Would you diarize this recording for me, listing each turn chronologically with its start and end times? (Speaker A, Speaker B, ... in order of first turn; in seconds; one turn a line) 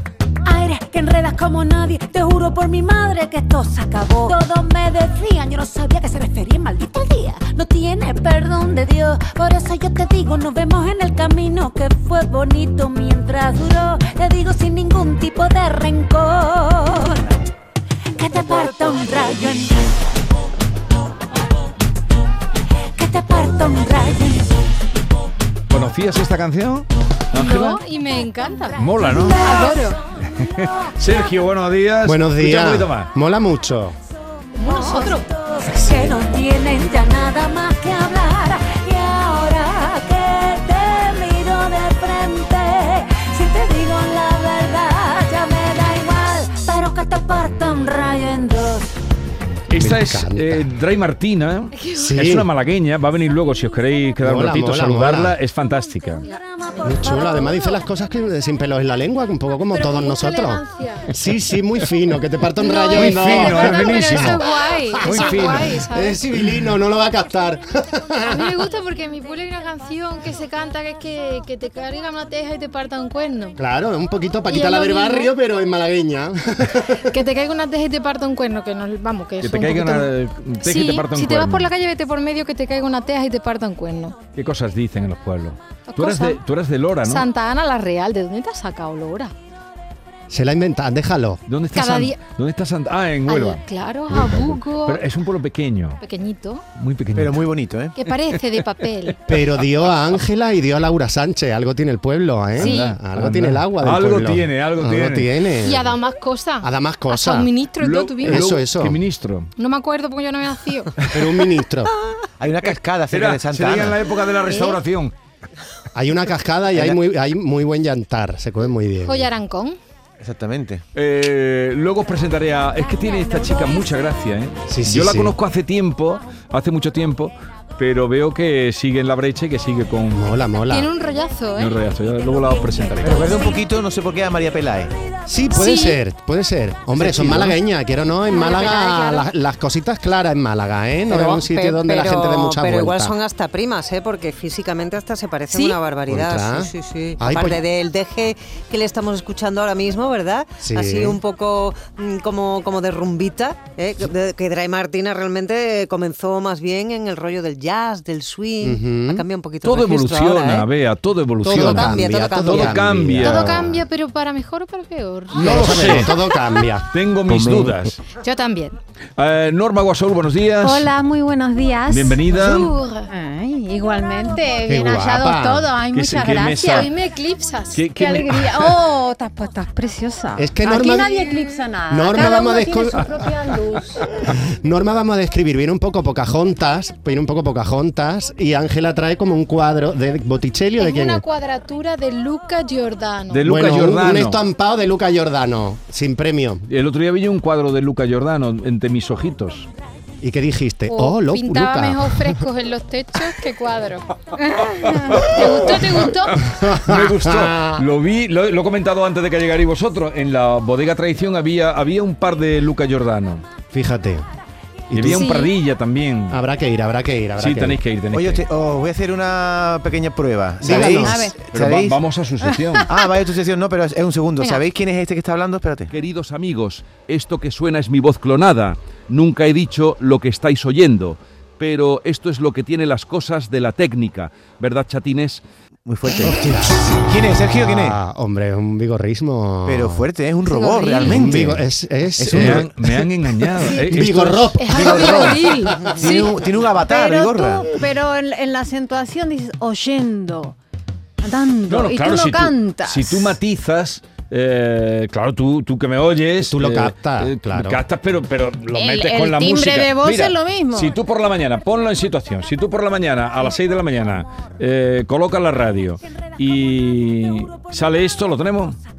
Speaker A: 0.5-17.2
Speaker A: 18.2-19.9
Speaker A: 22.9-24.5
Speaker B: 25.7-27.8
Speaker C: 27.3-30.0
Speaker B: 28.8-29.5
Speaker A: 29.1-29.9
Speaker B: 30.3-33.1
Speaker A: 30.6-31.4
Speaker D: 32.0-34.0
Speaker C: 34.5-35.3
Speaker A: 34.6-48.9
Speaker B: 49.7-56.2
Speaker D: 49.7-50.7
Speaker C: 51.8-52.1
Speaker D: 52.0-52.5
Speaker D: 54.2-55.4
Speaker A: 56.2-57.7
Speaker C: 56.3-57.6
Speaker D: 56.8-68.5
Speaker C: 59.7-61.1
Speaker C: 62.6-66.2
Speaker B: 63.0-65.8
Speaker C: 68.3-73.6
Speaker D: 73.6-77.1
Speaker C: 74.5-75.3
Speaker C: 77.1-80.1
Speaker B: 79.4-81.7
Speaker C: 80.6-84.2
Speaker B: 84.3-87.3
Speaker C: 85.9-86.4
Speaker C: 87.0-89.3
Speaker D: 90.3-91.4
Speaker B: 91.5-96.0
Speaker C: 91.7-92.2
Speaker C: 93.3-95.0
Speaker C: 96.0-96.7
Speaker B: 96.8-97.5
Speaker E: 97.2-98.0
Speaker C: 98.0-99.2
Speaker D: 99.3-105.9
Speaker B: 102.6-105.3
Speaker C: 102.6-102.9
Speaker C: 105.6-108.5
Speaker D: 106.6-107.5
Speaker B: 107.8-109.5
Speaker D: 108.2-109.0
Speaker C: 109.6-110.9
Speaker B: 111.0-111.4
Speaker D: 111.1-111.9
Speaker E: 112.4-114.0
Speaker B: 112.6-115.1
Speaker C: 114.5-114.8
Speaker D: 116.0-119.3
Speaker C: 119.1-119.8
Speaker E: 120.2-120.8
Speaker B: 121.0-130.3
Speaker C: 123.1-124.0
Speaker D: 124.7-125.3
Speaker D: 130.1-130.9
Speaker C: 130.7-131.8
Speaker B: 131.6-133.3
Speaker E: 133.0-134.9
Speaker D: 135.3-143.2
Speaker C: 135.5-136.0
Speaker E: 137.0-137.5
Speaker C: 138.3-139.2
Speaker F: 141.1-160.7
Speaker C: 145.5-145.8
Speaker D: 146.1-147.6
Speaker D: 150.6-151.2
Speaker D: 158.6-159.2
Speaker B: 159.6-163.7
Speaker D: 161.4-163.6
Speaker F: 161.5-162.8
Speaker C: 163.2-166.4
Speaker B: 165.3-166.1
Speaker D: 165.3-167.7
Speaker B: 166.9-168.0
Speaker C: 168.2-168.8
Speaker B: 169.2-170.9
Speaker G: 170.6-172.4
Speaker B: 171.9-172.8
Speaker C: 172.3-173.1
Speaker G: 173.1-176.9
Speaker D: 174.7-175.7
Speaker B: 175.9-176.9
Speaker C: 176.5-177.8
Speaker B: 177.7-178.8
Speaker G: 178.0-184.1
Speaker D: 180.4-183.3
Speaker D: 184.4-191.2
Speaker C: 190.8-193.4
Speaker B: 193.3-194.4
Speaker D: 193.4-196.6
Speaker B: 196.7-199.7
Speaker D: 200.2-202.4
Speaker C: 200.9-204.1
Speaker G: 204.5-205.2
Speaker B: 204.8-213.4
Speaker C: 205.2-206.4
Speaker D: 206.4-207.8
Speaker D: 213.7-214.2
Speaker D: 214.9-215.3
Speaker B: 214.9-216.4
Speaker C: 215.1-215.5
Speaker D: 216.3-217.8
Speaker B: 217.4-218.4
Speaker E: 218.1-222.0
Speaker D: 220.6-221.3
Speaker G: 220.9-221.3
Speaker B: 221.5-222.9
Speaker E: 222.9-225.9
Speaker B: 225.9-235.4
Speaker E: 235.8-238.0
Speaker D: 236.2-236.9
Speaker D: 237.6-240.1
Speaker E: 239.7-241.7
Speaker C: 240.5-241.2
Speaker D: 241.0-242.7
Speaker E: 242.2-242.7
Speaker B: 242.3-244.5
Speaker D: 243.9-245.9
Speaker C: 244.6-246.3
Speaker E: 244.7-247.7
Speaker G: 246.0-250.6
Speaker G: 251.2-253.3
Speaker B: 251.7-268.8
Speaker D: 256.4-257.8
Speaker G: 258.7-261.0